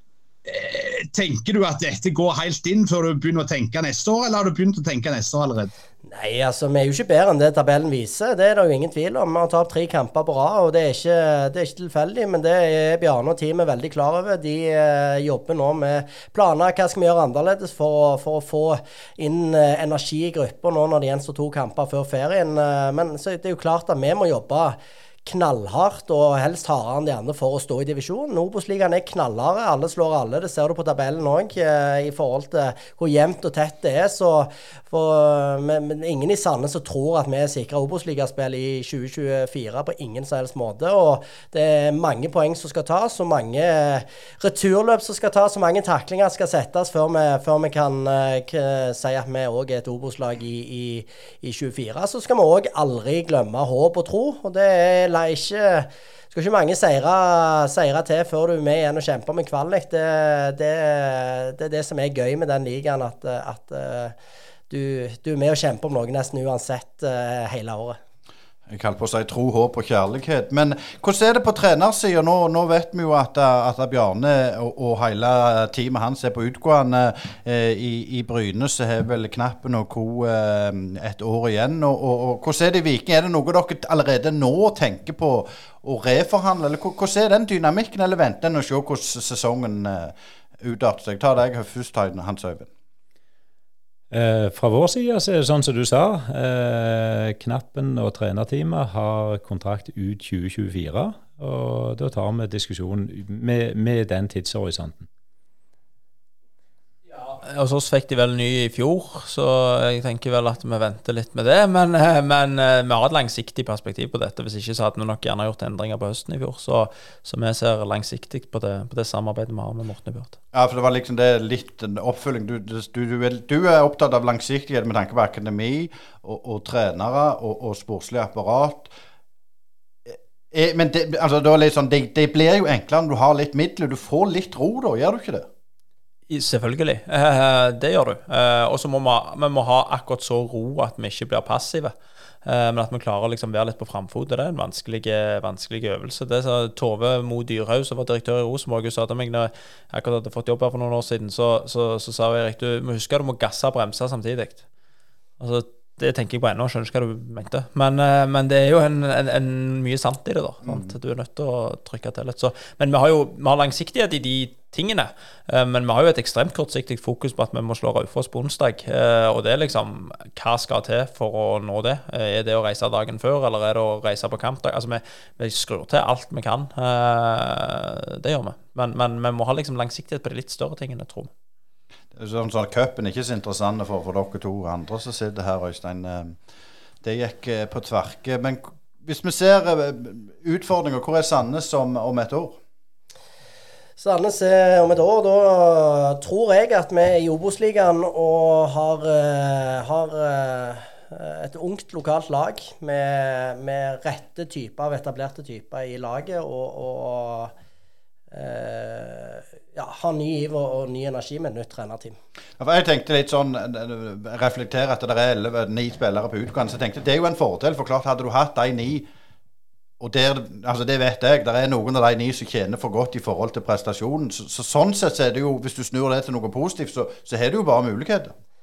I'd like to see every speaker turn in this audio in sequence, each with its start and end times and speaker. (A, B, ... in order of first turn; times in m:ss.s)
0:00.5-0:05.7 A
0:06.1-1:04.2 B
1:04.7-1:08.0 B
1:08.7-1:32.7 C
1:34.1-1:45.1 D
1:47.1-2:00.4 E
2:00.5-2:08.9 C
2:10.1-2:15.5 C
2:16.3-2:21.9 E
2:22.4-2:34.6 E
2:35.4-3:01.3 E
3:02.2-3:06.4 C
3:07.0-3:12.6 C
3:14.0-3:27.5 B
3:28.3-3:32.2 B
3:32.6-3:39.1 C
3:40.0-3:48.3 C